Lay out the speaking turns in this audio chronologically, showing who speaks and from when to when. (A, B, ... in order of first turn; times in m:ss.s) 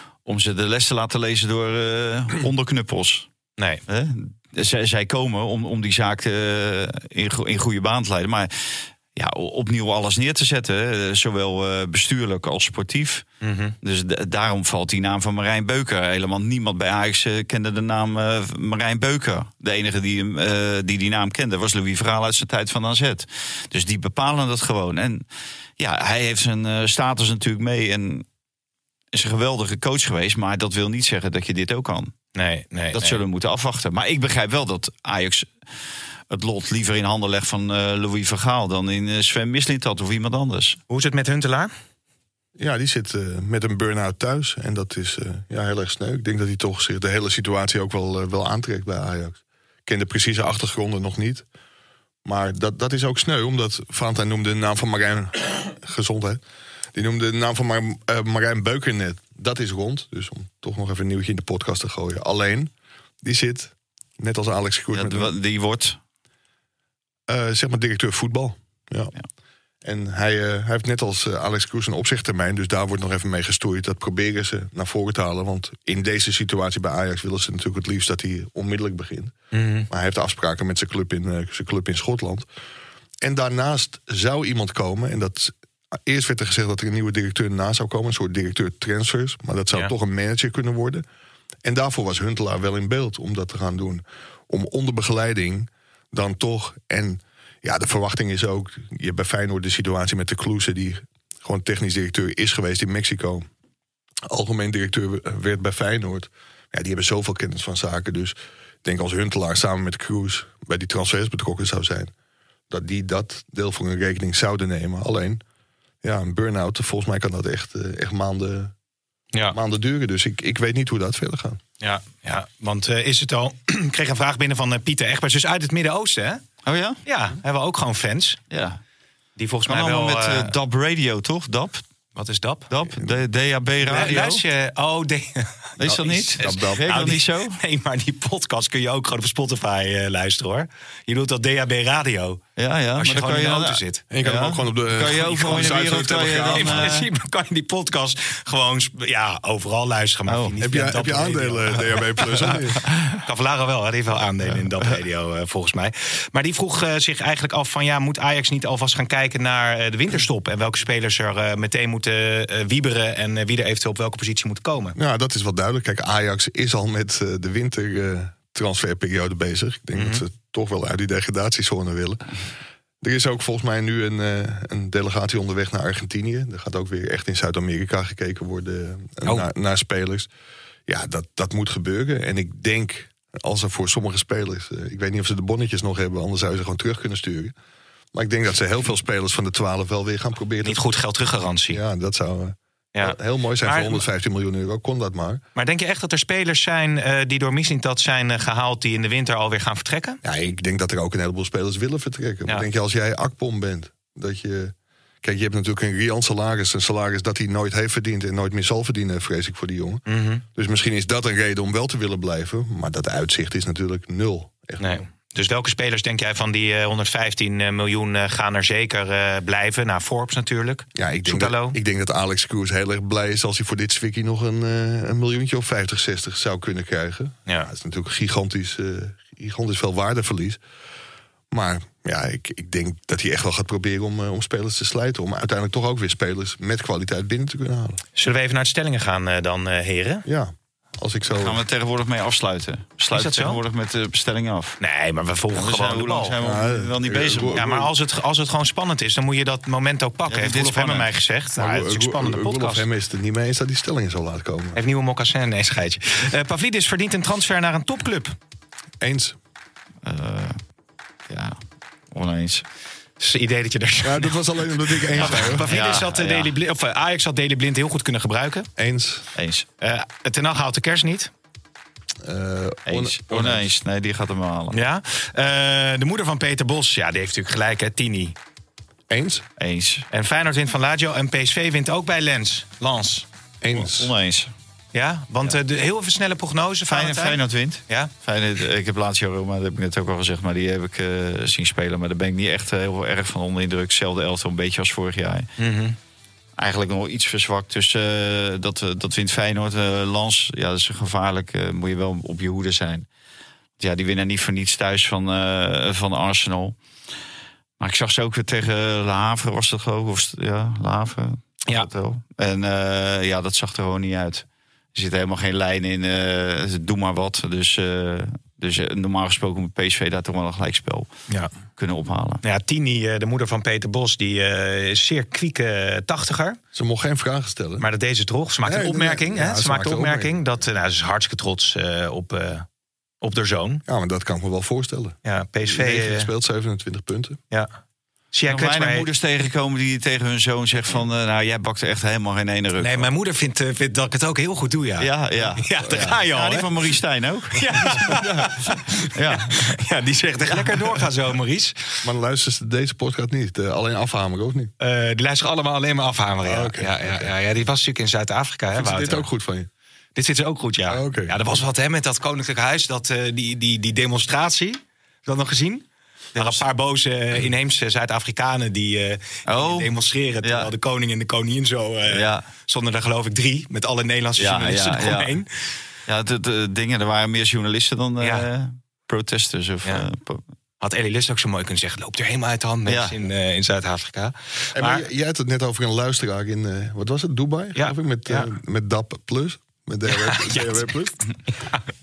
0:00.2-0:03.3 A
0:03.6-0:03.8 B
0:03.9-0:13.2 A
0:13.4-0:13.8 B
0:13.8-0:25.2 A
0:25.8-0:28.2 A
0:29.1-0:32.1 A
0:32.3-0:33.2 B
0:32.9-0:35.5 A
0:36.3-0:40.8 A
0:40.9-0:41.7 B
0:42.6-0:51.4 C
0:52.2-0:56.4 C
0:56.9-1:05.3 C
1:04.9-1:06.0 A
1:07.3-1:09.1 C
1:09.8-1:19.3 C
1:19.5-1:19.9 B
1:19.9-1:22.4 C
1:23.2-1:31.0 C
1:31.6-1:43.5 C
1:44.3-1:52.1 C
1:52.7-1:55.4 C
1:56.0-1:58.7 C
1:59.5-2:01.6 C
2:01.8-2:06.4 B
2:06.6-2:07.0 A
2:07.0-2:08.4 B
2:08.5-2:08.8 A
2:09.4-2:10.5 B
2:09.6-2:11.8 A
2:12.1-2:12.7 B
2:12.7-2:14.4 A
2:13.8-2:22.4 B
2:15.8-2:17.6 A
2:15.8-2:16.8 C
2:22.6-2:27.1 A
2:23.0-2:24.0 B
2:24.1-2:26.9 C
2:25.0-2:32.6 B
2:30.3-2:30.5 A
2:30.6-2:32.8 C
2:33.2-2:45.0 B
2:45.0-2:52.2 C
2:49.9-2:50.2 B
2:53.0-3:00.3 C
3:00.9-3:07.5 C
3:08.1-3:10.8 C
3:10.6-3:11.8 B
3:11.7-3:15.4 C
3:12.9-3:14.0 B
3:15.6-3:20.2 B
3:20.2-3:30.0 C
3:30.1-3:30.4 B
3:30.5-3:35.0 C
3:34.8-3:41.8 B
3:40.9-3:50.6 C
3:51.5-3:58.0 C
3:58.2-4:00.2 B
4:00.2-4:01.6 C
4:01.3-4:04.8 A
4:03.1-4:03.6 B
4:04.8-4:06.3 B
4:05.5-4:07.6 A
4:06.4-4:07.9 C
4:07.6-4:12.8 B
4:10.3-4:11.1 A
4:11.6-4:14.8 C
4:14.7-4:18.4 B
4:19.0-4:19.4 C
4:20.0-4:20.6 A
4:21.3-4:21.6 A
4:22.1-4:22.6 A
4:23.2-4:28.7 B
4:24.0-4:25.7 C
4:25.7-4:26.5 A
4:28.8-4:29.3 C
4:29.4-4:29.6 A
4:29.8-4:31.3 B
4:32.2-4:33.7 C
4:32.9-4:34.8 A
4:34.7-4:38.3 B
4:39.1-4:39.4 C
4:39.6-4:40.0 A
4:40.1-4:43.2 B
4:43.6-4:44.1 C
4:43.7-4:44.5 A
4:44.9-4:48.1 B
4:46.9-4:55.5 A
4:55.6-4:56.0 B
4:56.6-5:03.1 A
5:03.8-5:06.8 A
5:07.8-5:21.1 A
5:21.8-5:22.4 A
5:22.4-5:26.6 B
5:26.7-5:27.8 C
5:27.8-5:32.7 B
5:28.6-5:30.6 C
5:33.2-5:33.8 B
5:33.8-5:37.4 C
5:35.2-5:36.3 B
5:38.3-5:39.1 B
5:38.5-5:43.1 A
5:42.8-5:46.7 B
5:45.0-5:48.4 A
5:47.5-5:52.1 B
5:49.1-5:49.7 A
5:50.5-5:51.0 A
5:52.0-5:54.7 C
5:54.8-5:59.2 B
5:56.4-5:57.3 C
5:58.7-5:59.7 C
6:00.2-6:05.8 B
6:00.9-6:01.4 C
6:06.3-6:06.6 A
6:06.4-6:15.7 B
6:09.5-6:09.9 A
6:10.4-6:10.7 A
6:12.1-6:12.4 A
6:14.4-6:15.3 A
6:16.1-6:20.4 A
6:18.2-6:18.5 B
6:20.8-6:25.0 B
6:22.9-6:23.1 A
6:24.7-6:31.2 C
6:27.7-6:28.5 B
6:30.1-6:30.9 B